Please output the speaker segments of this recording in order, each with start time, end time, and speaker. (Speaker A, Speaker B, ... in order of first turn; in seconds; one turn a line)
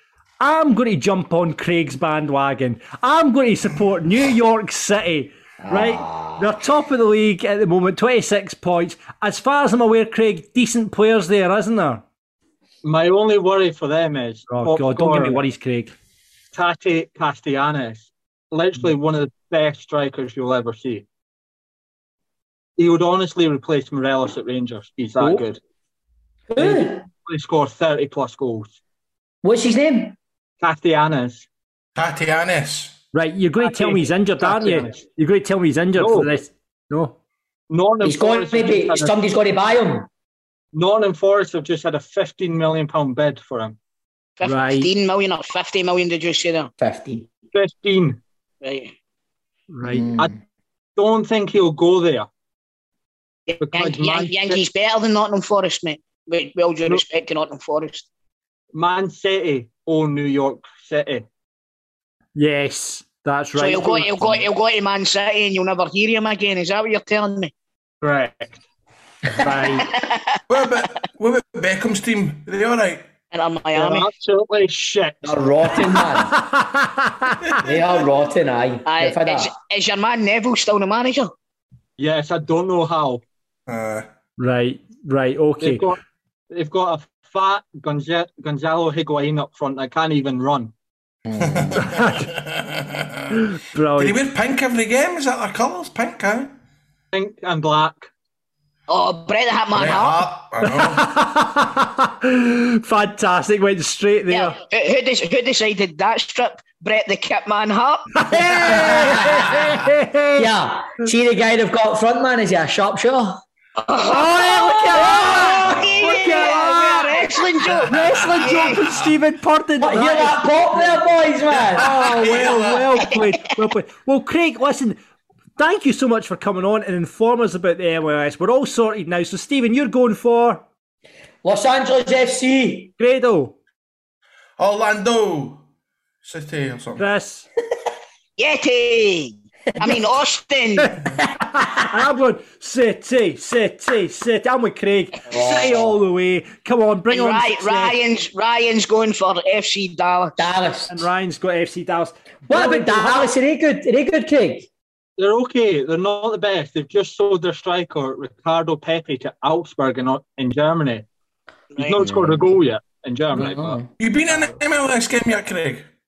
Speaker A: 0.4-12.0
Speaker B: 5.6-6.5
Speaker C: 12.8-15.4
Speaker A: 14.5-15.9
Speaker C: 16.5-21.0
Speaker C: 22.8-25.6
Speaker B: 26.5-27.1
Speaker C: 26.6-28.8
Speaker B: 29.4-30.1
Speaker C: 30.6-31.5
Speaker D: 31.9-33.0
Speaker A: 33.1-37.1
Speaker C: 33.6-35.0
Speaker C: 35.9-36.3
Speaker C: 37.7-39.2
Speaker B: 38.0-40.1
Speaker C: 40.7-43.8
Speaker E: 44.4-46.7
Speaker A: 44.4-44.9
Speaker B: 46.8-47.3
Speaker C: 47.5-48.2
Speaker E: 48.6-48.9
Speaker A: 49.7-50.1
Speaker B: 49.8-50.3
Speaker C: 51.0-52.3
Speaker E: 53.5-58.0
Speaker C: 53.6-54.6
Speaker C: 58.7-61.2
Speaker A: 62.3-64.4
Speaker E: 63.5-67.5
Speaker C: 68.0-68.6
Speaker A: 69.4-69.9
Speaker E: 69.9-70.4
Speaker D: 70.5-73.1
Speaker E: 73.3-74.1
Speaker C: 73.7-75.3
Speaker B: 75.2-76.4
Speaker A: 76.2-77.4
Speaker D: 77.5-78.0
Speaker B: 77.6-79.5
Speaker E: 78.8-81.3
Speaker C: 82.0-83.2
Speaker D: 83.7-84.1
Speaker A: 84.4-85.8
Speaker C: 85.6-86.0
Speaker C: 86.5-90.7
Speaker B: 91.2-91.8
Speaker D: 91.3-93.4
Speaker A: 91.8-92.3
Speaker A: 93.3-94.2
Speaker D: 94.0-96.5
Speaker C: 97.1-98.1
Speaker E: 98.9-100.2
Speaker D: 99.7-101.1
Speaker A: 100.6-104.5
Speaker E: 104.3-108.1
Speaker A: 108.1-110.5
Speaker B: 108.3-109.8
Speaker B: 110.4-113.4
Speaker E: 113.8-118.8
Speaker A: 114.0-117.2
Speaker B: 114.9-115.9
Speaker D: 117.7-119.1
Speaker A: 117.9-121.1
Speaker B: 119.8-121.9
Speaker D: 121.6-123.1
Speaker A: 121.7-125.0
Speaker A: 125.6-130.6
Speaker B: 131.4-132.9
Speaker A: 133.0-133.5
Speaker D: 134.6-135.6
Speaker D: 136.2-137.0
Speaker A: 137.0-137.5
Speaker E: 138.4-140.9
Speaker A: 140.8-147.9
Speaker B: 145.3-145.9
Speaker E: 147.1-150.5
Speaker B: 150.4-151.0
Speaker A: 150.9-153.3
Speaker B: 152.5-154.7
Speaker C: 155.2-161.1
Speaker E: 161.7-162.0
Speaker C: 161.8-163.8
Speaker B: 162.0-162.4
Speaker B: 163.3-163.8
Speaker D: 164.0-165.9